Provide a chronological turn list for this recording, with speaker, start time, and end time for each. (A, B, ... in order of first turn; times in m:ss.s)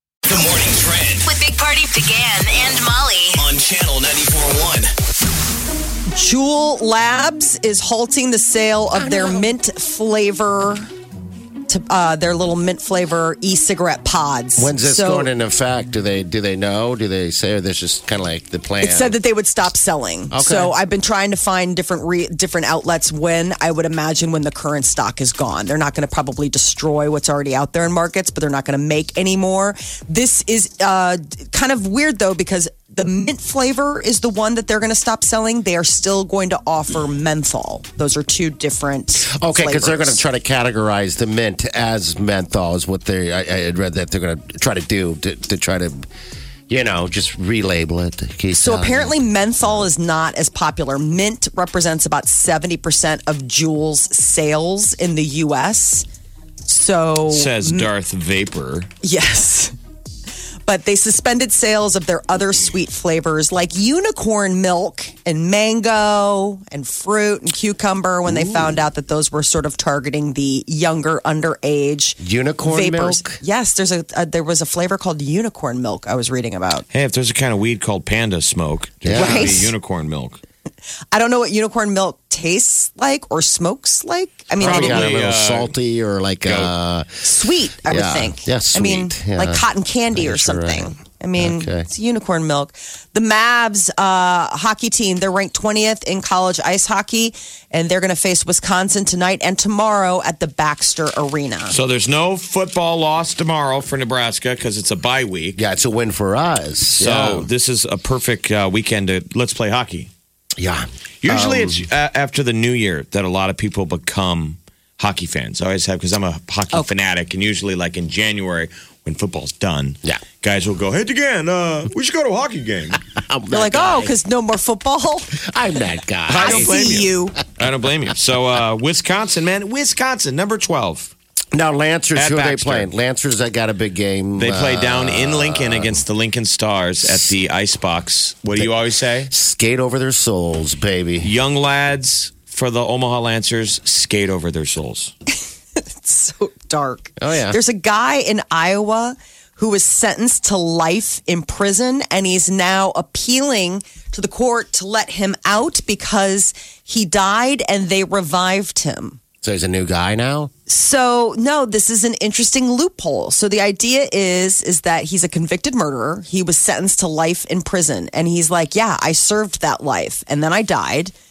0:00.3-0:01.3 A
0:01.2-0:03.5 B
0:03.4-0:04.9 A
0:06.1-0:10.9 C
0:08.9-0:09.6 D
0:11.7-0:15.3 C
0:14.6-0:19.2 D
0:18.8-0:40.2 C
0:20.3-0:20.7 D
0:39.3-0:46.0 D
0:46.7-0:49.2 D
0:48.5-0:56.1 C
0:56.7-0:57.9 C
0:57.3-0:58.9 E
0:59.0-0:59.7 C
1:00.7-1:16.8 C
1:08.2-1:08.8 D
1:12.2-1:13.4 D
1:16.9-1:20.4 E
1:19.0-1:19.7 D
1:19.1-1:19.7 C
1:21.1-1:25.1 C
1:24.6-1:27.3 D
1:24.6-1:25.7 E
1:26.4-1:26.7 E
1:27.2-1:41.8 C
1:27.8-1:31.9 D
1:41.7-1:45.6 E
1:45.6-1:47.5 D
1:47.0-1:50.1 E
1:50.6-1:51.8 D
1:51.2-2:03.0 E
2:03.2-2:04.1 D
2:03.5-2:05.4 C
2:05.5-2:06.8 D
2:06.3-2:11.1 E
2:06.4-2:07.4 C
2:11.5-2:16.0 D
2:12.2-2:12.9 E
2:14.4-2:19.3 E
2:19.3-2:21.3 D
2:21.2-2:25.1 E
2:25.8-2:39.2 C
2:27.2-2:27.6 D
2:39.4-2:40.5 D
2:40.7-2:51.1 C